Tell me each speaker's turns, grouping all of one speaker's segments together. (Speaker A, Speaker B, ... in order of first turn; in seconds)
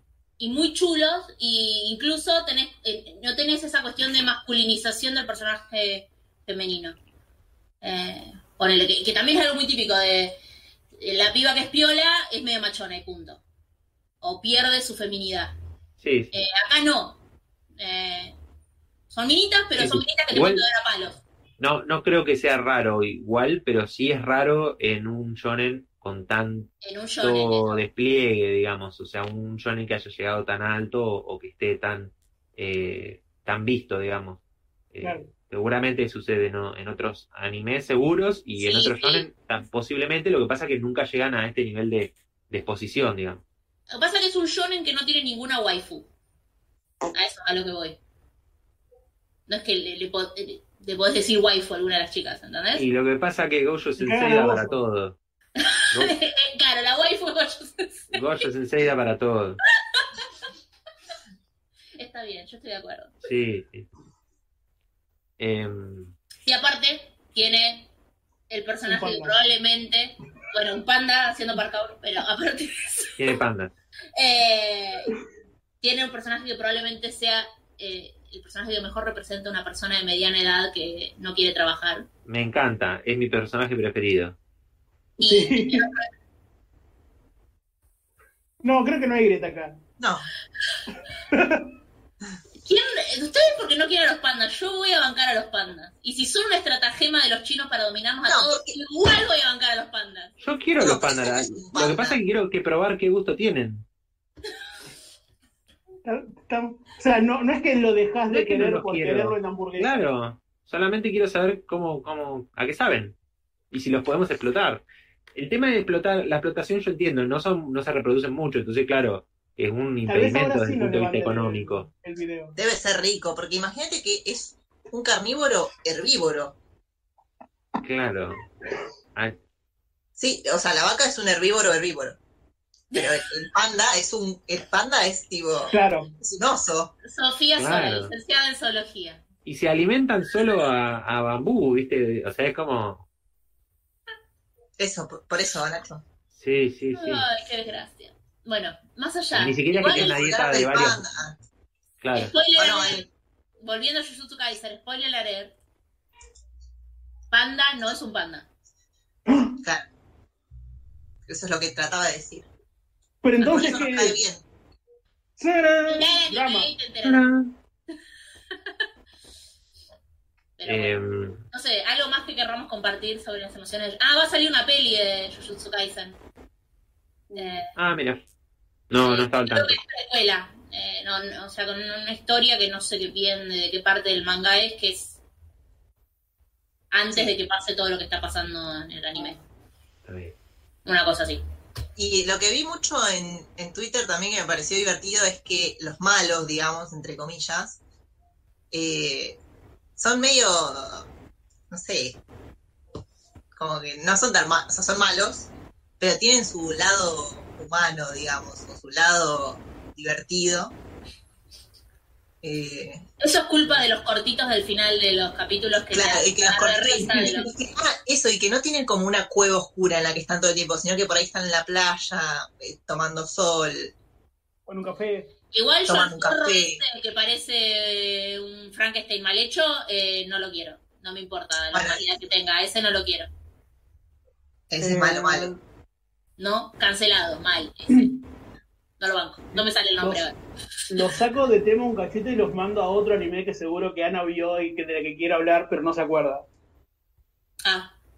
Speaker A: 0.4-7.0, 7.8-10.3, 11.0-13.4, 14.2-15.5, 16.3-17.2, 17.8-18.3, 19.1-21.2, 26.8-27.8, 38.5-39.3, 43.9-46.1, 47.1-48.0, 49.5-52.8, 55.6-58.4, 59.9-60.3, 62.0-63.1, 66.4-67.9, 68.5-73.2, 74.1-75.2, 75.8-82.1, 85.2-86.1, 92.6-100.3, 132.9-133.2, 137.0-139.2, 146.9-150.2, 152.1-153.0, 153.6-155.5, 157.3-158.4, 163.4-163.8, 165.9-167.3, 170.6-176.2, 177.3-177.7, 179.0-185.2, 186.9-189.4, 190.8-191.4, 213.2-217.5, 225.5-233.3, 236.4-238.1, 239.0-240.4, 247.6-247.9
Speaker B: 16.0-16.3, 19.8-20.6, 21.6-26.7, 27.2-34.4, 34.9-43.4, 52.7-55.2, 58.1-59.6, 63.2-63.9, 65.4-66.1, 73.2-73.7, 82.2-84.3, 100.4-103.8, 108.3-113.2, 113.7-114.8, 115.3-121.9, 127.8-128.4, 137.6-138.1, 139.4-143.1, 146.3-147.2, 149.3-151.0, 152.0-152.3, 167.0-167.5, 170.7-171.4, 177.7-178.2, 178.9-179.8, 190.0-190.3
Speaker C: 35.0-35.3, 54.0-54.8, 68.9-69.4, 85.2-85.9, 88.6-89.8, 91.3-91.7, 106.0-110.1, 120.1-122.5, 135.7-136.1, 159.3-159.6, 163.2-164.2, 165.4-166.7, 177.3-177.6, 224.7-225.3, 234.8-235.6, 239.5-240.2, 240.9-246.4
Speaker D: 90.0-90.3, 98.2-98.8, 100.8-102.2, 122.5-126.5, 130.2-132.2, 132.9-136.9, 144.8-146.0, 149.9-151.4, 152.6-153.1, 161.3-162.4, 163.4-164.4, 192.0-197.8, 198.7-199.4, 200.0-201.0, 201.7-202.2, 203.5-205.5, 206.0-210.7, 212.4-213.0, 215.9-223.9, 225.9-226.8, 231.7-232.0, 234.7-235.5